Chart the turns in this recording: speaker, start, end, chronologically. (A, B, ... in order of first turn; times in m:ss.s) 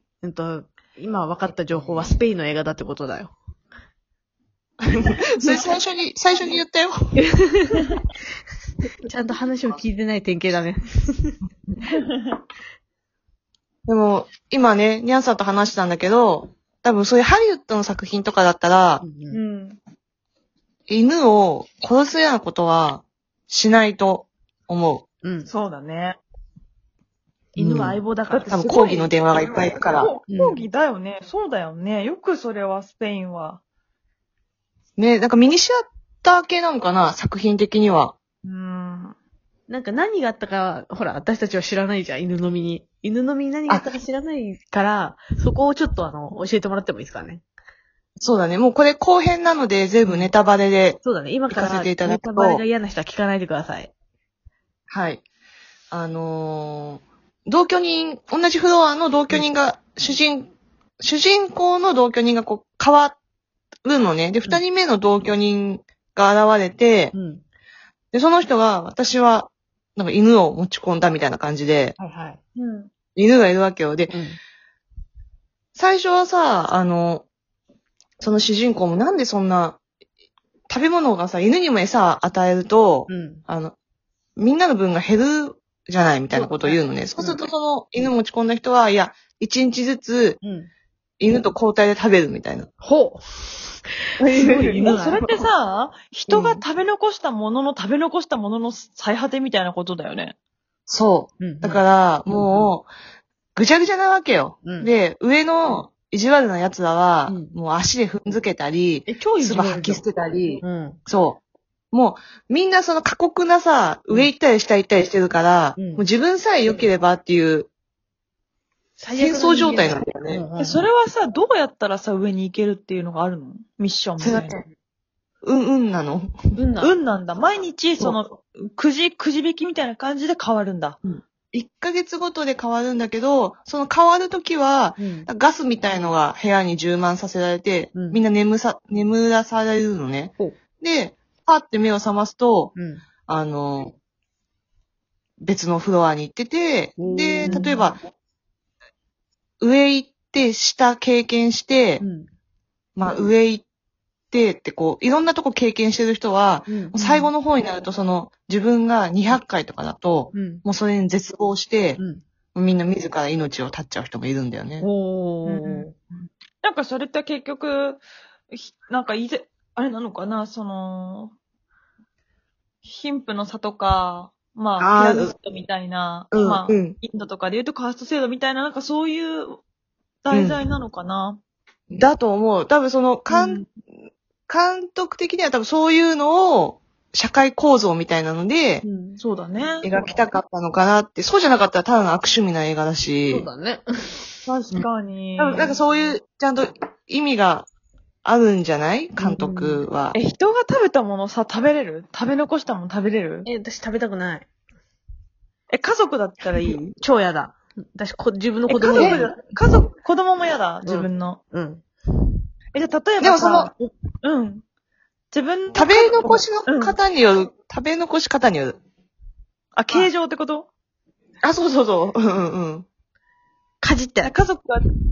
0:00.2-0:03.3 A
0:04.8-0:07.2 B
0:07.2-0:07.8 A
0:09.0-0:11.4 A
0:11.8-0:12.4 C
0:13.9-0:19.0 B
0:19.0-0:19.4 A
0:19.3-0:19.8 C
0:20.9-0:25.0 B
0:25.2-0:25.5 A
0:25.5-0:26.2 C
0:27.6-0:28.9 A
0:27.6-0:30.1 B
0:28.3-0:29.1 C
0:29.8-0:33.6 C
0:30.3-0:30.7 A
0:35.0-0:38.2 B
0:38.4-0:39.2 C
0:39.7-0:47.4 A
0:48.2-0:52.6 B
0:50.0-0:50.3 A
0:51.0-0:53.9 A
0:54.9-0:55.2 B
0:55.9-1:03.2 B
1:03.8-1:07.1 B
1:07.1-1:07.4 A
1:08.1-1:12.0 B
1:12.0-1:12.4 A
1:12.6-1:12.9 C
1:13.2-1:14.1 B
1:14.1-1:14.4 A
1:15.8-1:17.3 B
1:18.2-1:19.8 B
1:20.7-1:23.8 B
1:23.1-1:23.4 A
1:24.4-1:30.4 B
1:26.3-1:27.4 A
1:30.4-1:30.7 A
1:31.2-1:32.7 B
1:32.8-1:35.3 A
1:34.2-1:35.0 B
1:34.8-1:40.3 C
1:36.3-1:36.6 B
1:40.9-1:42.9 B
1:41.4-1:42.7 A
1:43.6-1:51.4 B
1:44.6-1:44.9 A
1:47.3-1:47.6 A
1:49.1-1:50.0 A
1:50.6-1:51.0 A
1:51.9-1:57.7 B
1:55.8-1:56.0 A
1:59.0-2:00.9 A
1:59.2-2:00.4 B
2:00.6-2:04.6 C
2:04.2-2:04.6 B
2:05.4-2:06.9 B
2:06.6-2:11.0 C
2:11.0-2:22.7 B
2:15.0-2:15.3 A
2:18.0-2:18.2 A
2:22.8-2:23.0 A
2:23.3-2:23.9 B
2:25.4-2:28.0 B
2:27.0-2:27.9 A
2:29.6-2:32.0 B
2:32.0-2:32.3 A
2:33.0-2:33.6 B
2:34.3-2:42.0 B
2:36.7-2:37.3 A
2:40.3-2:40.6 A
2:42.0-2:42.2 A
2:42.6-2:44.9 B
2:44.8-2:45.9 A
2:45.5-2:45.9 C
2:46.6-2:51.4 C
2:52.8-2:59.6 C
2:54.8-2:55.3 B
2:56.3-2:57.0 B
3:00.2-3:01.4 C
3:00.3-3:00.6 B
3:01.9-3:03.8 B
3:04.5-3:08.8 B
3:08.8-3:09.2 A
3:09.2-3:09.9 C
3:09.8-3:13.5 B
3:13.3-3:14.8 A
3:14.5-3:15.8 C
3:15.4-3:17.7 B
3:18.2-3:20.2 B
3:19.2-3:19.9 A
3:20.1-3:23.5 C
3:23.4-3:24.5 A
3:25.7-3:27.0 C
3:27.0-3:29.6 A
3:28.7-3:31.4 C
3:28.9-3:29.3 B
3:30.8-3:31.9 A
3:32.7-3:34.6 C
3:33.2-3:33.7 B
3:35.3-3:37.0 C
3:35.7-3:38.8 B
3:39.8-3:40.7 C
3:41.4-3:42.9 B
3:43.8-3:44.4 A
3:44.2-3:44.9 C